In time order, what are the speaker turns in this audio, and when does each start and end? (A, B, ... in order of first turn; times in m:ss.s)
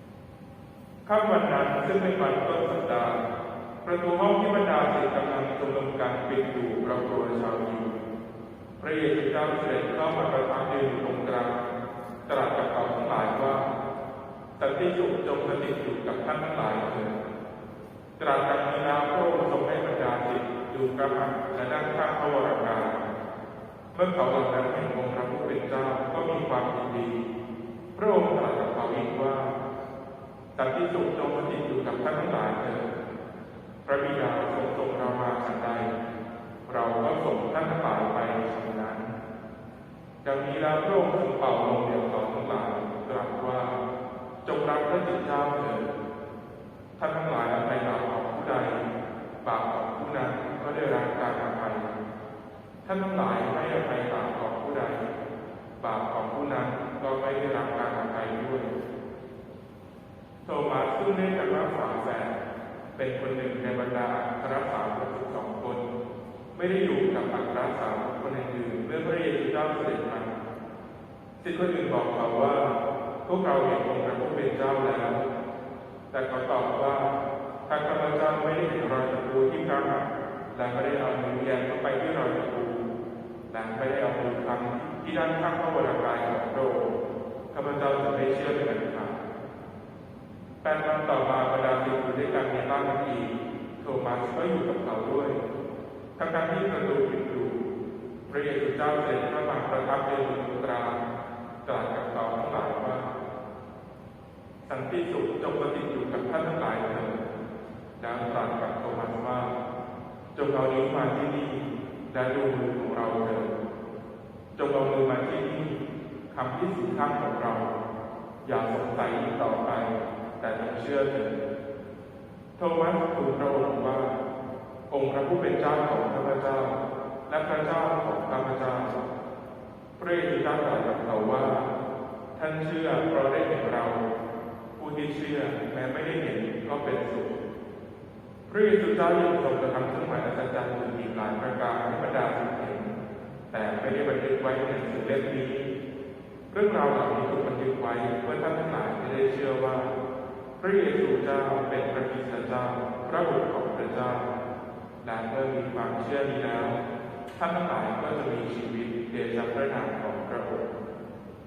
0:01.0-0:03.2 A
0:03.8-0:08.0 A
0:08.8-0:11.7 A
0:12.3-0:13.7 A
0:14.6-0:17.2 A
0:18.2-0:23.1 A
0:23.9-0:27.2 A
0:28.0-0:29.6 A
0:30.6-0:32.9 A
0:33.8-0:35.9 A
0:36.7-0:39.1 A
0:40.2-0:43.8 A
0:44.4-0:45.9 A
0:47.0-0:48.9 A
0:49.4-0:51.9 A
0:52.8-0:55.1 A
0:55.8-0:58.8 A
1:00.4-1:02.4 A
1:03.0-1:05.9 A
1:06.5-1:10.4 A
1:11.4-1:15.2 A
1:16.1-1:17.2 A
1:17.7-1:22.9 A
1:23.5-1:27.0 A
1:27.5-1:29.2 A
1:30.6-1:35.4 A
1:36.2-1:37.6 A
1:38.3-1:41.0 A
1:41.6-1:43.1 A
1:44.6-1:47.2 A
1:48.0-1:49.5 A
1:50.3-1:53.5 A
1:54.6-1:55.8 A
1:56.3-1:57.7 A
1:58.4-2:01.4 A
2:02.6-2:04.2 A
2:04.9-2:09.0 A
2:10.0-2:11.7 A
2:12.4-2:14.0 A
2:14.8-2:17.4 A
2:18.5-2:23.0 A
2:23.5-2:25.7 A
2:26.5-2:29.9 A
2:30.6-2:34.3 A
2:35.0-2:36.8 A
2:37.4-2:40.7 A